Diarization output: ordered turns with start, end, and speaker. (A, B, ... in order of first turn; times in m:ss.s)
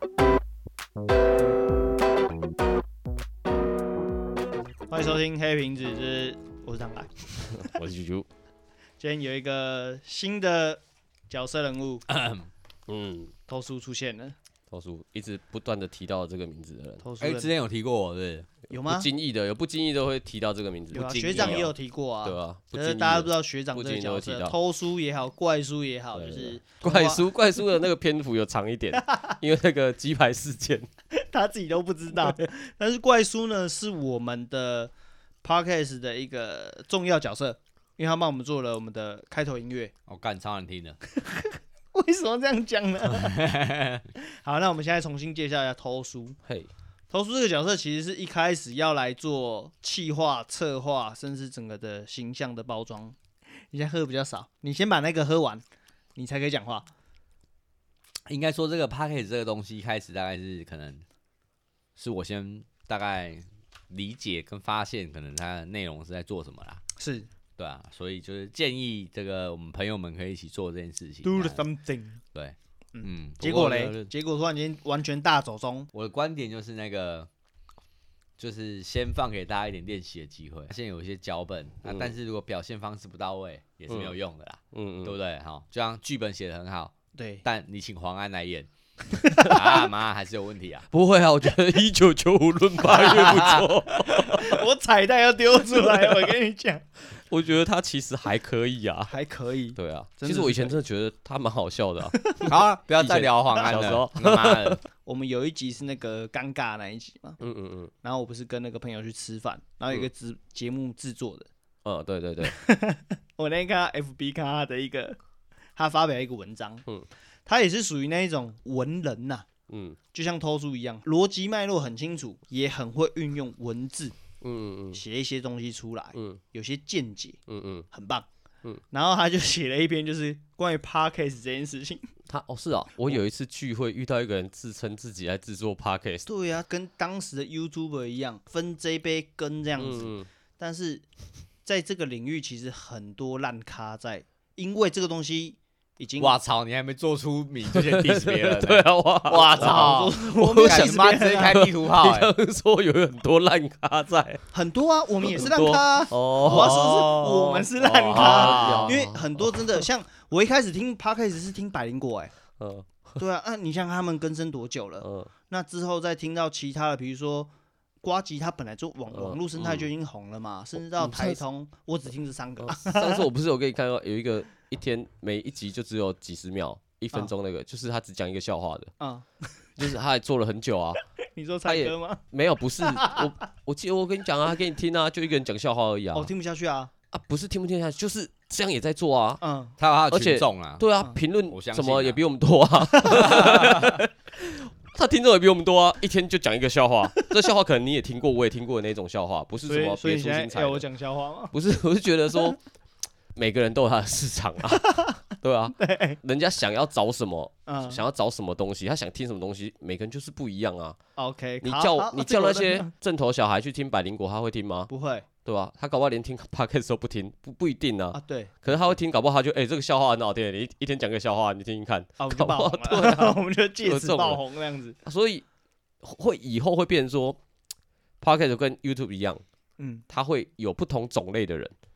0:04.9-0:07.8 A
0:07.6-0:08.3 B
0:09.0-0:12.0 A
0:12.1-0:12.5 C
0:12.9-0:13.3 B
0:13.5-0:14.4 A
0:14.7-0:17.0 B
0:17.0-0:17.5 A
0:17.2-0:18.5 C
0:18.7-0:19.1 A
0:18.7-0:21.7 B
0:20.9-0:27.3 A
0:20.9-0:21.7 C
0:22.2-0:24.5 B
0:26.1-0:30.9 B
0:29.0-0:29.4 A
0:31.2-0:34.9 A
0:35.4-0:39.9 A
0:40.1-0:41.0 C
0:41.1-0:43.4 A
0:43.1-0:44.0 C
0:44.2-0:46.4 A
0:47.1-0:53.2 A
0:53.7-0:55.6 A
0:56.2-0:56.9 A
0:58.3-1:01.0 C
1:02.0-1:06.8 C
1:07.0-1:07.3 A
1:07.6-1:11.6 C
1:11.2-1:12.2 A
1:12.3-1:14.1 C
1:12.9-1:15.9 A
1:15.9-1:17.3 C
1:18.4-1:28.7 C
1:21.8-1:22.1 B
1:23.9-1:24.1 B
1:24.7-1:25.1 B
1:27.1-1:27.4 A
1:29.1-1:29.9 A
1:29.4-1:30.9 C
1:30.9-1:34.6 B
1:32.9-1:33.6 A
1:33.0-1:33.7 C
1:34.2-1:36.8 A
1:35.7-1:36.3 B
1:37.1-1:39.1 B
1:39.1-1:40.8 A
1:39.8-1:44.8 B
1:42.2-1:42.6 A
1:42.4-1:44.8 C
1:45.0-1:47.4 A
1:47.4-1:47.9 B
1:48.0-1:51.5 A
1:51.8-1:52.6 B
1:52.4-1:55.2 A
1:55.8-1:56.9 A
1:57.4-1:59.4 A
1:59.7-2:00.0 B
2:00.1-2:04.2 A
2:04.4-2:05.0 B
2:04.9-2:07.4 A
2:07.5-2:07.9 B
2:07.9-2:08.2 A
2:08.9-2:12.1 A
2:12.3-2:16.2 B
2:16.2-2:21.0 A
2:19.8-2:20.3 B
2:21.6-2:26.4 A
2:26.2-2:32.3 C
2:27.7-2:34.4 B
2:29.3-2:31.8 A
2:34.5-2:42.3 A
2:35.3-2:39.8 B
2:36.4-2:37.0 C
2:38.1-2:39.0 C
2:42.6-2:43.2 B
2:43.2-2:47.5 A
2:45.0-2:45.3 B
2:48.0-2:53.2 A
2:49.1-2:49.9 B
2:51.0-2:51.4 B
2:52.6-2:58.9 B
2:59.0-2:59.8 A
2:59.8-3:01.0 B
3:01.4-3:02.2 A
3:01.7-3:06.3 B
3:02.8-3:03.3 A
3:06.2-3:06.9 A
3:07.1-3:09.4 B
3:09.4-3:09.8 A
3:09.8-3:10.8 C
3:10.1-3:20.8 B
3:11.5-3:12.2 C
3:12.9-3:13.8 A
3:13.1-3:13.9 C
3:19.7-3:21.5 A
3:21.5-3:22.6 B
3:23.3-3:31.0 B
3:24.7-3:25.2 A
3:25.8-3:26.2 A
3:27.7-3:28.0 A
3:31.2-3:32.9 A
3:31.6-3:34.9 B
3:34.9-3:35.2 A
3:35.4-3:44.4 B
3:38.1-3:38.5 A
3:42.2-3:45.0 A
3:45.0-3:45.4 B
3:46.0-3:47.4 B
3:48.2-3:49.4 B
3:49.8-3:50.1 A
3:50.1-3:51.7 B